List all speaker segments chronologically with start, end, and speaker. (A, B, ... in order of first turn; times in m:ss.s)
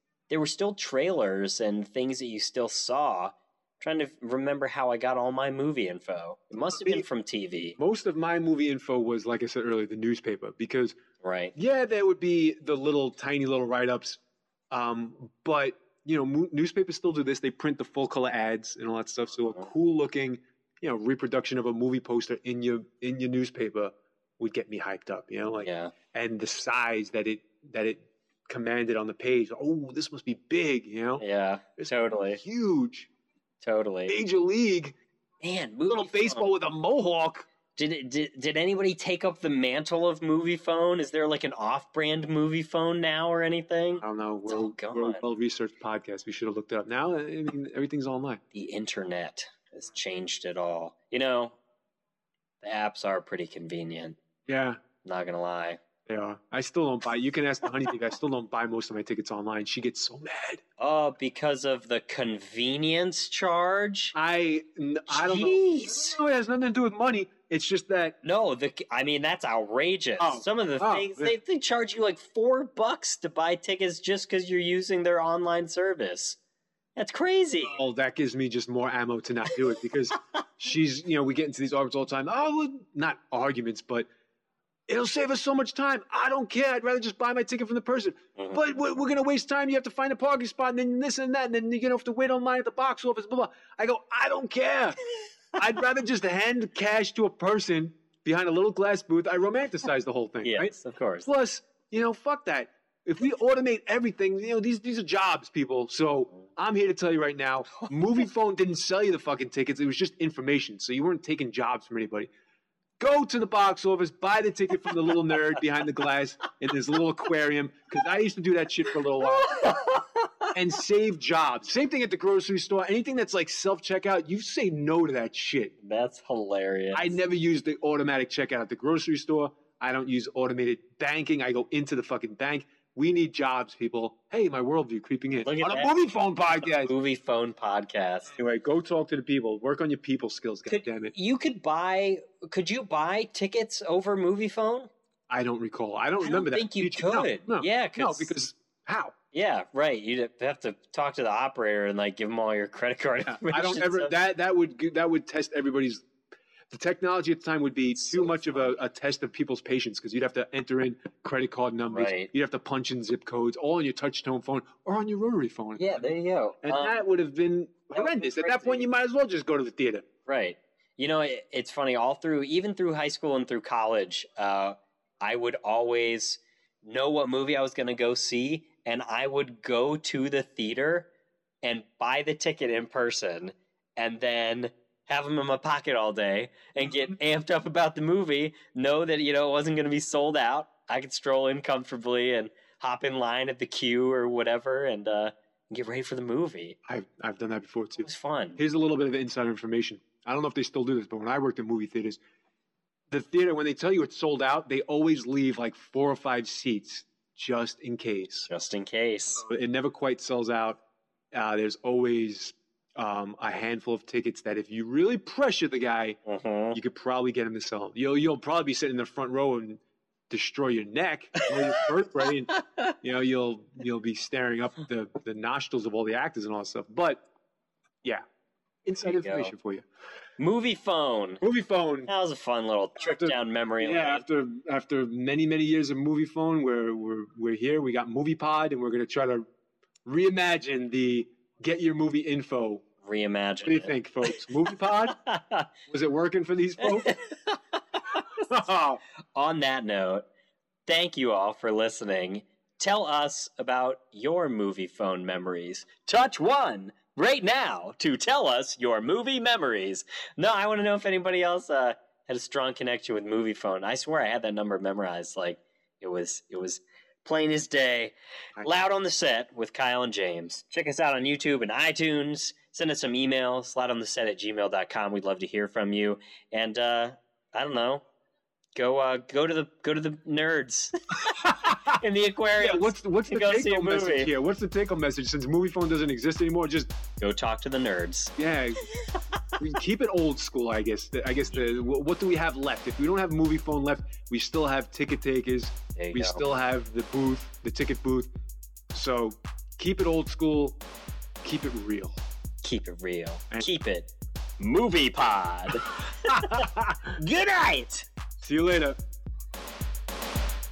0:00.3-0:07.8 A
0:06.7-0:07.0 B
0:07.8-0:11.0 B
0:11.2-0:11.5 A
0:11.6-0:14.2 B
0:14.7-0:31.2 B
0:25.6-0:25.9 A
0:31.2-0:32.4 A
0:31.8-0:33.1 B
0:33.6-0:34.2 A
0:34.1-0:35.0 B
0:35.4-0:36.5 A
0:35.9-0:37.5 B
0:37.8-0:45.2 A
0:44.0-0:48.4 B
0:48.5-0:51.6 A
0:52.6-0:54.2 A
0:54.5-0:54.8 B
0:55.0-0:55.8 A
0:56.1-1:00.6 B
1:00.8-1:04.2 A
1:04.1-1:08.2 B
1:05.1-1:06.2 A
1:08.2-1:16.4 A
1:10.2-1:11.4 B
1:17.0-1:17.8 A
1:17.6-1:24.1 B
1:24.9-1:35.0 B
1:28.4-1:28.6 A
1:35.5-1:40.7 B
1:40.4-1:41.3 A
1:41.2-1:52.3 B
1:53.0-1:59.7 B
1:59.2-2:00.5 A
2:00.5-2:05.7 B
2:05.8-2:07.2 A
2:06.9-2:16.9 B
2:15.4-2:15.9 A
2:16.6-2:18.3 A
2:18.3-2:21.1 B
2:20.7-2:24.9 A
2:25.3-2:29.1 B
2:26.2-2:28.4 A
2:29.3-2:34.1 A
2:33.2-2:36.0 B
2:36.7-2:46.1 B
2:38.0-2:38.8 A
2:41.9-2:42.3 A
2:45.8-2:47.0 A
2:46.6-2:50.0 B
2:47.9-2:48.9 A
2:50.3-3:01.1 A
3:01.6-3:16.8 A
3:06.9-3:07.2 B
3:16.9-3:22.2 B
3:18.0-3:18.6 A
3:23.1-3:28.5 B
3:28.5-3:29.4 A
3:29.4-3:30.8 B
3:31.3-3:36.2 B
3:36.3-3:36.8 A
3:36.7-3:47.2 B
3:41.4-3:41.9 A
3:48.8-3:49.8 B
3:49.0-3:49.5 A
3:50.4-3:51.4 A
3:51.4-3:52.1 B
3:52.1-3:54.2 A
3:53.0-3:59.4 B
4:00.0-4:02.8 B
4:03.0-4:03.9 A
4:03.6-4:05.2 B
4:05.2-4:05.7 A
4:05.9-4:07.2 B
4:06.8-4:07.6 A
4:08.5-4:09.0 B
4:09.4-4:10.2 A
4:10.9-4:38.0 A
4:28.6-4:28.8 B
4:38.8-4:44.3 A
4:41.3-4:42.0 B
4:42.6-4:46.9 B
4:47.2-4:48.3 A
4:48.4-4:48.9 B
4:49.6-4:58.3 B
4:56.0-4:56.4 A
4:58.9-5:00.8 B
5:01.4-5:02.2 B
5:02.6-5:04.1 A
5:04.6-5:08.1 A
5:06.2-5:07.1 B
5:08.4-5:09.0 B